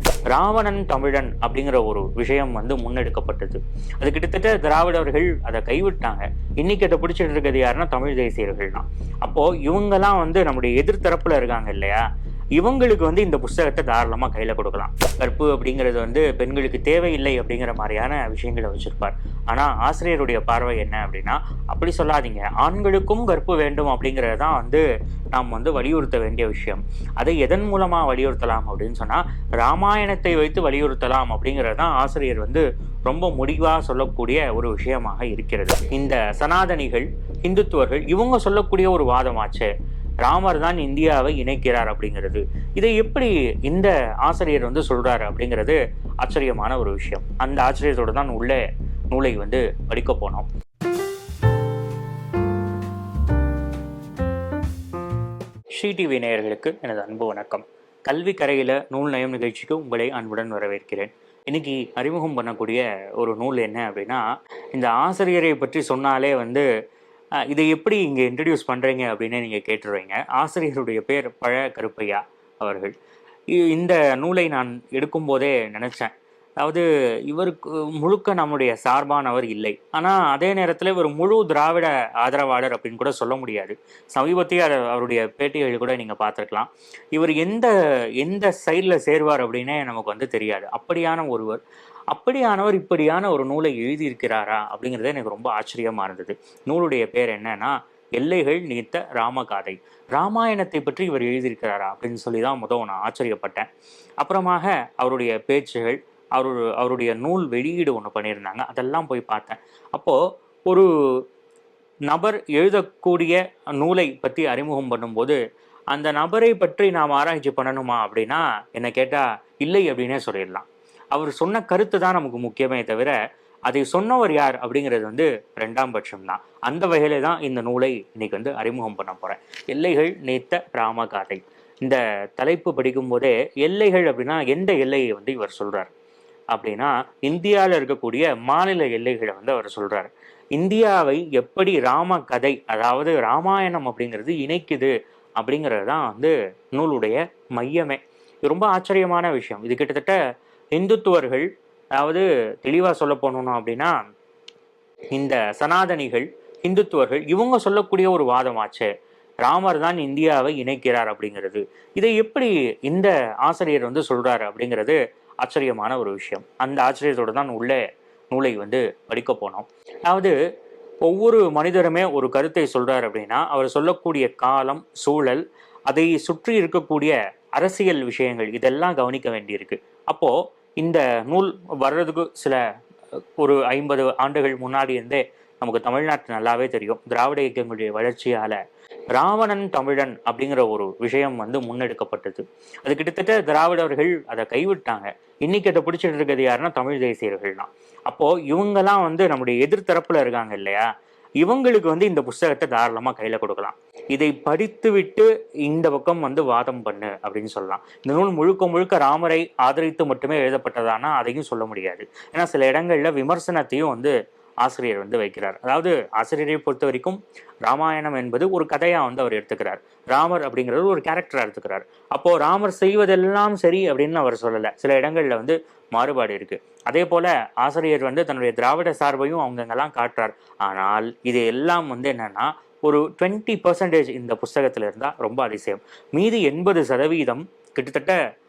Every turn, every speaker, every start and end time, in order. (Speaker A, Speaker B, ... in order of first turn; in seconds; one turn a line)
Speaker A: 0.3-12.0
Speaker A: 12.6-39.7
Speaker A: 40.2-48.6
Speaker A: 49.1-50.5
Speaker A: 55.8-64.2
Speaker A: 64.7-66.7
Speaker A: 67.5-72.9
Speaker A: 73.6-91.6
Speaker A: 92.1-103.7
Speaker A: 104.2-110.9
Speaker A: 112.1-115.4
Speaker A: 115.9-123.2
Speaker A: 123.7-135.9
Speaker A: 136.5-150.2
Speaker A: 150.8-153.9
Speaker A: 155.1-158.9
Speaker A: 159.5-167.8
Speaker A: 168.3-170.3
Speaker A: 171.1-182.6
Speaker A: 183.4-188.6
Speaker A: 189.1-200.9
Speaker A: 201.4-214.1
Speaker A: 214.6-238.2